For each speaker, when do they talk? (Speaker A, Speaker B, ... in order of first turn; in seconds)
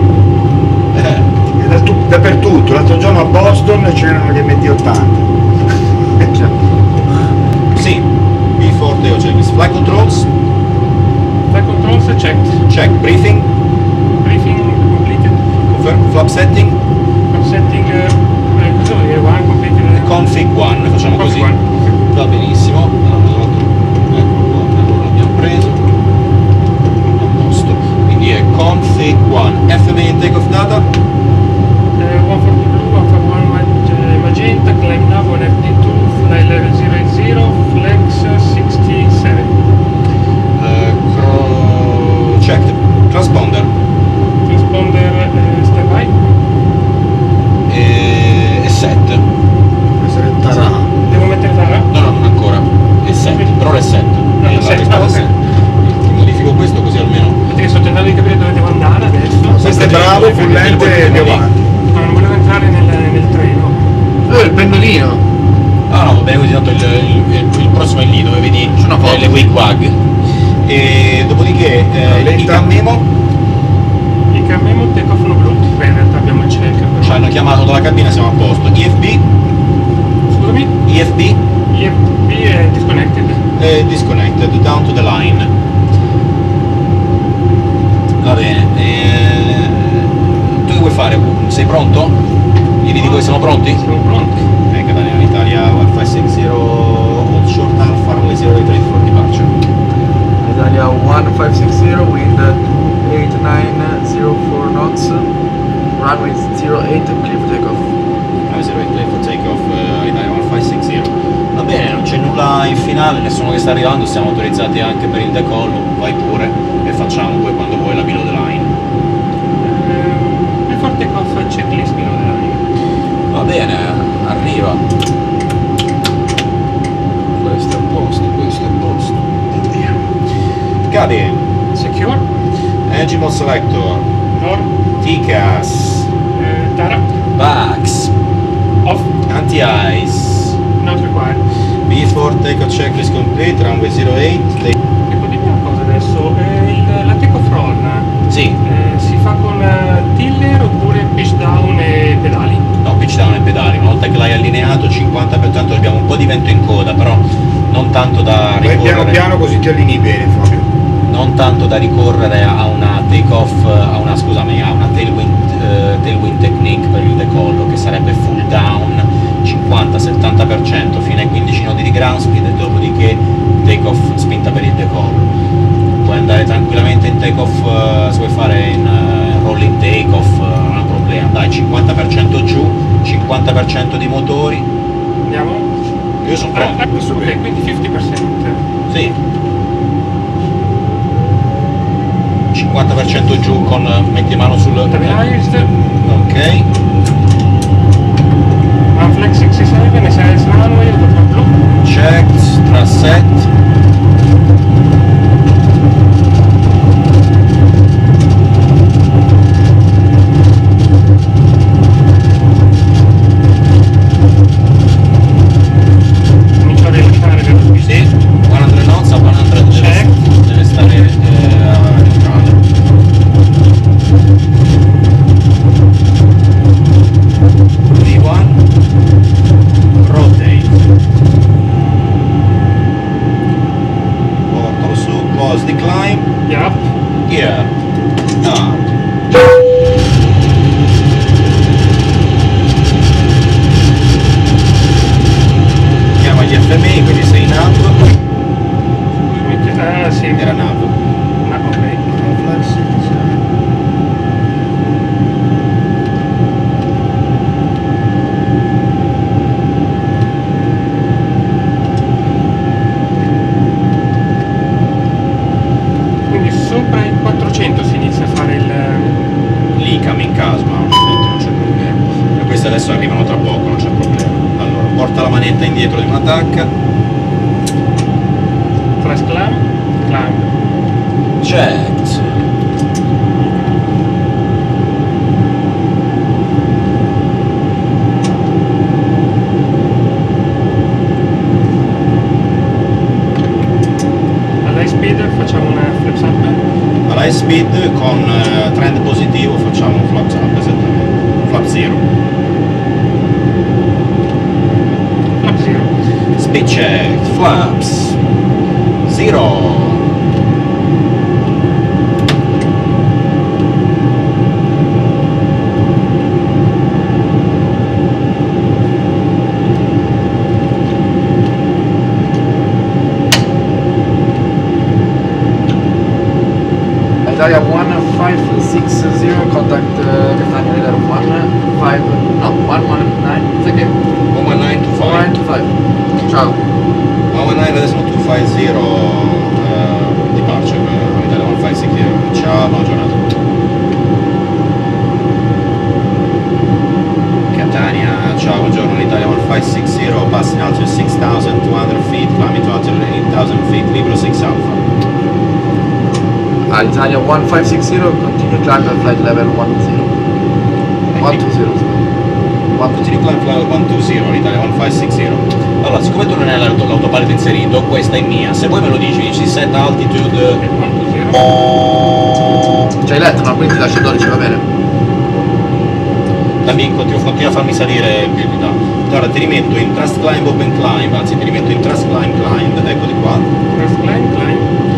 Speaker A: 0.9-1.3, 7.7-10.3, 12.7-13.5, 15.7-16.8, 19.9-21.6, 22.1-25.8, 27.2-30.9, 40.6-43.7, 47.7-49.2, 51.9-57.4, 59.5-61.4, 65.9-70.0, 70.7-73.1, 77.0-79.2, 80.8-81.4, 83.6-85.5, 88.2-92.2, 92.8-93.8, 94.7-99.5, 108.5-118.7, 123.3-124.8, 127.9-129.9, 130.9-131.5, 132.9-134.1, 135.0-136.1, 137.4-138.1, 139.3-140.6, 141.9-144.8, 148.3-148.6, 152.8-159.2, 161.1-175.3, 176.0-184.7, 186.2-186.8, 188.9-189.2, 192.5-195.3, 196.0-196.7, 201.8-203.5, 217.8-222.6, 227.9-228.6, 229.9-230.8, 234.5-236.3, 237.3-237.7, 238.4-238.8, 246.2-248.1, 250.4-250.9, 252.1-253.3, 269.8-276.7, 281.4-282.5, 297.1-302.0, 306.4-308.2, 309.1-310.0, 334.3-335.3, 337.3-343.2, 347.5-354.8, 362.9-370.6, 376.6-383.5
Speaker B: 1.6-5.3, 50.0-50.9, 59.5-61.6, 72.0-72.8, 158.6-160.7, 186.9-187.4
Speaker C: 6.3-6.5, 64.3-65.2, 68.8-69.5, 100.4-105.3, 106.0-107.9, 127.4-128.0, 327.2-333.9, 334.9-335.7, 336.2-336.6, 356.7-360.1, 361.1-362.0, 362.8-363.0, 373.0-374.6
Speaker D: 11.5-12.6, 14.2-15.7, 17.3-20.4, 21.1-21.9, 32.0-39.5, 44.5-46.3, 51.1-51.9, 53.1-53.5, 54.4-55.3, 57.5-61.4, 61.9-63.9, 74.3-77.3, 80.3-80.8, 81.7-83.4, 93.0-94.4, 119.6-122.6, 131.7-132.2, 134.3-134.7, 136.3-137.1, 138.8-139.1, 140.8-141.4, 145.1-148.1, 148.6-152.6, 185.2-185.7, 186.5-188.6, 194.9-195.7, 198.9-201.5, 216.6-218.1, 219.7-220.1, 236.5-236.9, 249.1-250.5, 251.4-252.1, 266.3-269.2, 279.0-280.5, 294.6-296.6, 305.4-305.9, 361.1-361.4, 370.6-371.5, 383.7-384.7